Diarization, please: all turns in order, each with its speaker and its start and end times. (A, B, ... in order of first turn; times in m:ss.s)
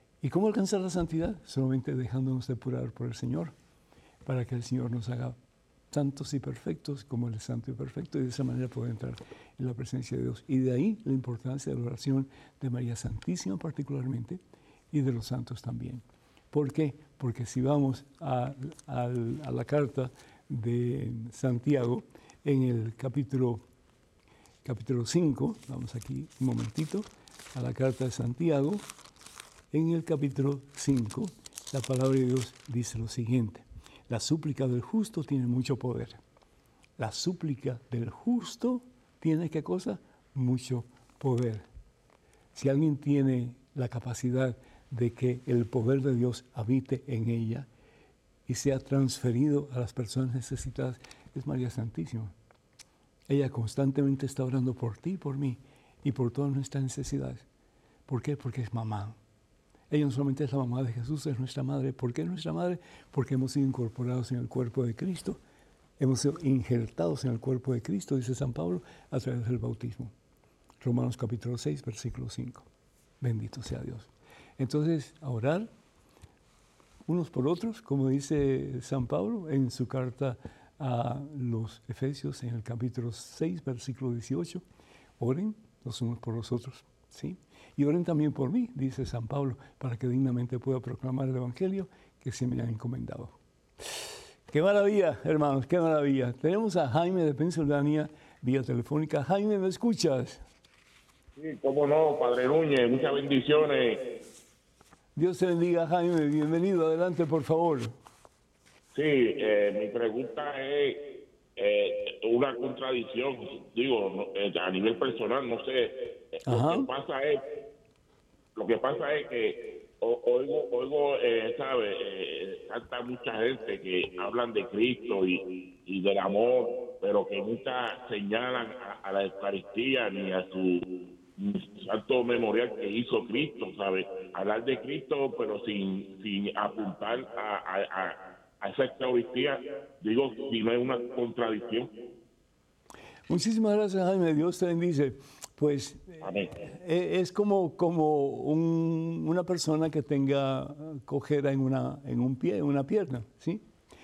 0:00.2-0:03.5 A
0:04.2-0:05.4 A
0:05.9-0:14.4 A
0:14.9-0:23.6 A
0:24.6-0:28.8 A
0:29.7-0:36.2 A
0:37.0-0:41.7 A
0:42.6-0:47.7 A
0:48.5-0:52.3 A
0:53.3-0:57.5 A
0:58.1-0:59.2 A
0:59.9-1:05.4 A
1:06.0-1:10.1 A
1:10.8-1:12.7 A
1:13.2-1:15.7 A
1:17.1-1:24.6 A
1:25.2-1:33.4 A
1:34.5-1:40.4 A
1:41.4-1:44.2 B
1:45.2-1:48.0 A
1:48.9-1:57.4 B
1:56.5-1:56.9 A
1:58.6-2:21.9 B
2:23.3-2:33.6 A
2:26.2-2:26.5 B